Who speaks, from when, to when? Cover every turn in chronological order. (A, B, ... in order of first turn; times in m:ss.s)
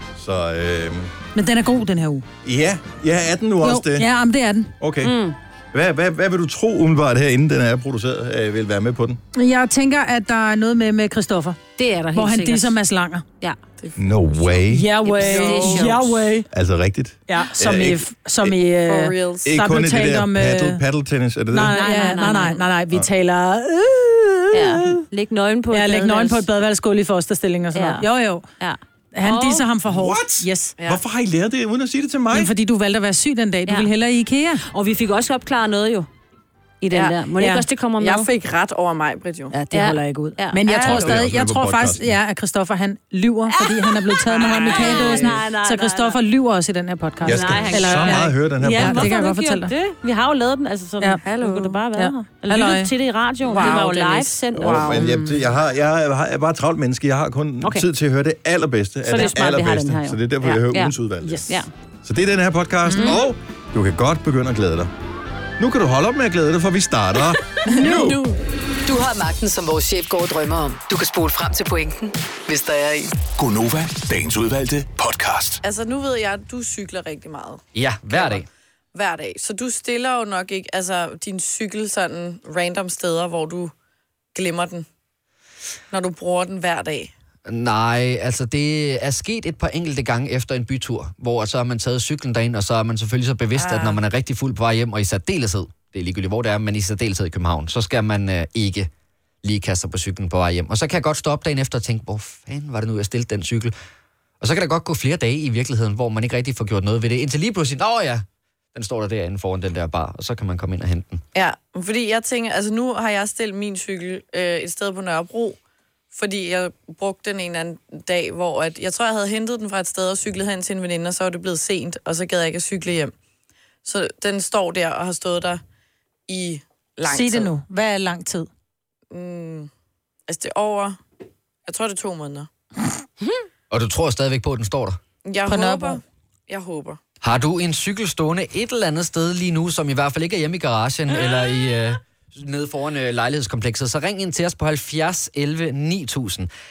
0:00.2-0:01.1 A
0:01.4-0:02.3 B
0:02.4-0:04.1 A
0:03.6-0:04.7 B
0:04.8-0:05.1 A
0:05.0-0:05.4 C
0:05.7-0:09.2 A
0:09.4-0:13.3 B
0:11.8-0:12.8 C
0:13.8-0:14.6 D
0:14.0-0:14.9 A
0:14.7-0:16.5 B
0:15.0-0:16.3 C
0:15.2-0:16.0 D
0:16.5-0:18.6 A
0:17.3-0:20.8 B
0:18.8-0:19.5 D
0:19.5-0:22.0 A
0:21.5-0:25.0 B
0:21.7-0:22.7 C
0:24.5-0:26.4 C
0:25.7-0:28.5 B
0:27.7-0:28.1 C
0:28.6-0:29.7 C
0:29.2-0:30.8 B
0:29.9-0:32.5 A
0:32.3-0:34.6 B
0:34.6-0:36.1 C
0:36.8-0:38.3 C
0:36.9-0:37.2 D
0:37.4-0:37.7 B
0:38.0-0:39.5 D
0:39.5-0:49.7 B
0:39.7-0:40.8 C
0:40.7-0:41.2 D
0:40.8-0:42.1 A
0:43.5-0:46.2 C
0:47.3-0:49.2 A
0:47.3-0:55.4 C
0:51.0-0:52.9 B
0:53.5-0:53.9 B
0:53.6-0:55.0 D
0:54.6-1:01.5 A
0:54.6-0:55.0 B
0:57.6-0:57.9 C
0:59.0-1:01.0 C
0:59.1-0:59.4 B
1:01.2-1:01.6 B
1:02.0-1:04.9 A
1:02.9-1:03.2 B
1:02.9-1:03.2 C
1:05.6-1:08.2 A
1:07.6-1:08.2 B
1:07.6-1:08.4 D
1:08.9-1:13.1 E
1:13.4-1:15.6 F
1:15.6-1:23.7 D
1:17.7-1:18.5 G
1:24.4-1:24.9 D
1:25.9-1:27.1 D
1:27.5-1:38.9 G
1:33.6-1:34.0 D
1:39.4-1:43.7 G
1:44.4-1:51.2 G
1:51.3-1:55.6 D
1:56.1-2:03.1 D
2:03.8-2:05.6 D
2:06.3-2:07.5 D
2:07.1-2:08.5 B
2:09.1-2:09.7 D
2:10.3-2:11.0 D
2:11.7-2:12.5 D
2:13.7-2:15.0 G
2:15.2-2:17.0 D
2:15.5-2:16.0 B
2:17.2-2:26.5 G